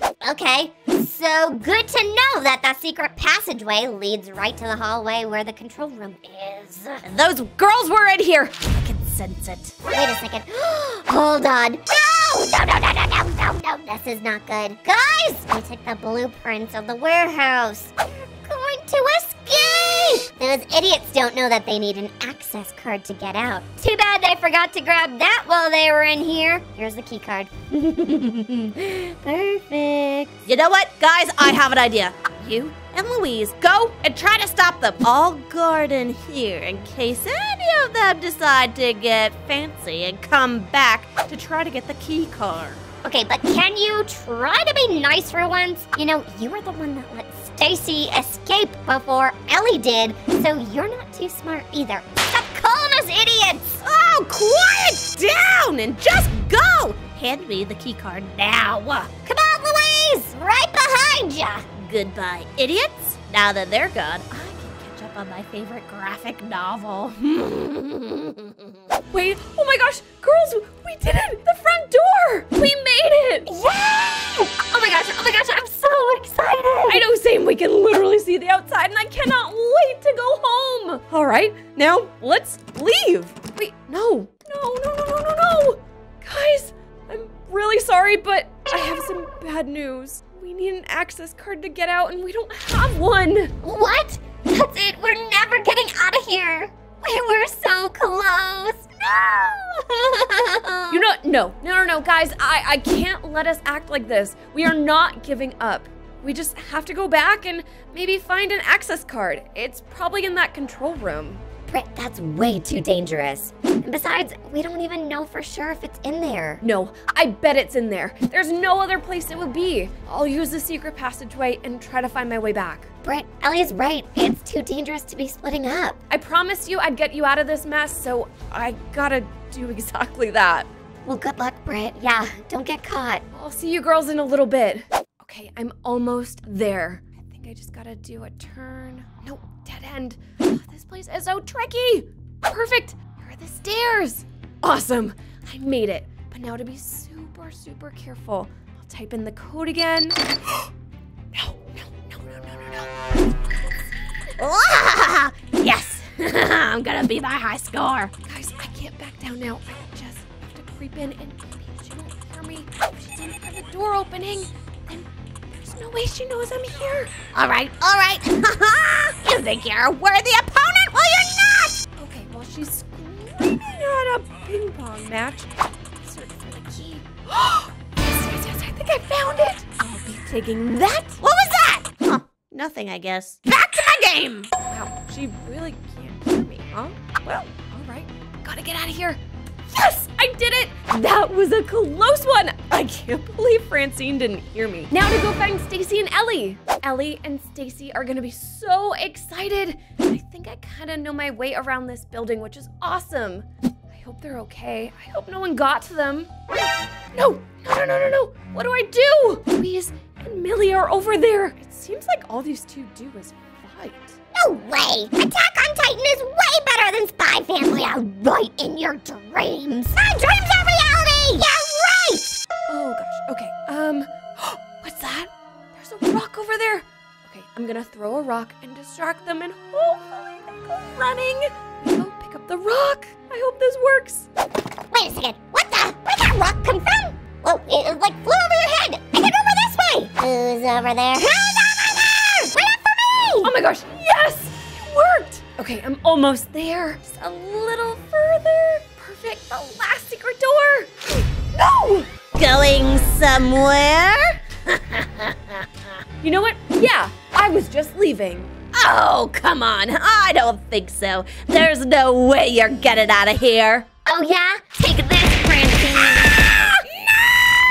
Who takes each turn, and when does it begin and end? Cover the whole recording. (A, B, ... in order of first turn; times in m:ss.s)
0:00.2-0:07.0 A
0:07.1-0:07.4 B
0:07.4-0:08.6 C
0:08.6-0:09.7 B
0:09.9-0:30.3 A
0:30.5-0:42.8 B
0:43.0-0:53.8 A
0:53.8-0:56.2 C
0:56.1-0:59.1 B
0:59.3-1:01.7 A
1:01.8-1:08.6 B
1:04.3-1:04.9 C
1:09.1-1:13.5 C
1:13.5-1:17.1 D
1:16.9-1:33.5 C
1:33.6-1:41.1 D
1:40.9-1:51.4 C
1:51.7-1:56.6 D
1:56.6-2:02.9 C
2:03.0-2:06.0 D
2:06.1-2:10.7 C
2:11.0-2:13.2 D
2:13.3-2:30.2 C
2:31.3-2:32.9 C
2:34.4-2:38.1 B
2:38.2-2:47.1 C
2:47.3-2:51.8 B
2:52.0-2:55.5 C
2:56.0-3:01.2 C
3:01.2-3:04.5 B
3:03.5-3:26.3 C
3:27.1-3:34.2 C
3:34.4-3:42.4 A
3:42.7-3:54.3 C
3:54.9-4:03.5 A
4:03.4-4:12.1 C
4:12.4-4:15.6 B
4:16.2-4:18.5 C
4:18.7-4:23.9 B
4:24.1-4:26.6 D
4:27.0-4:27.5 C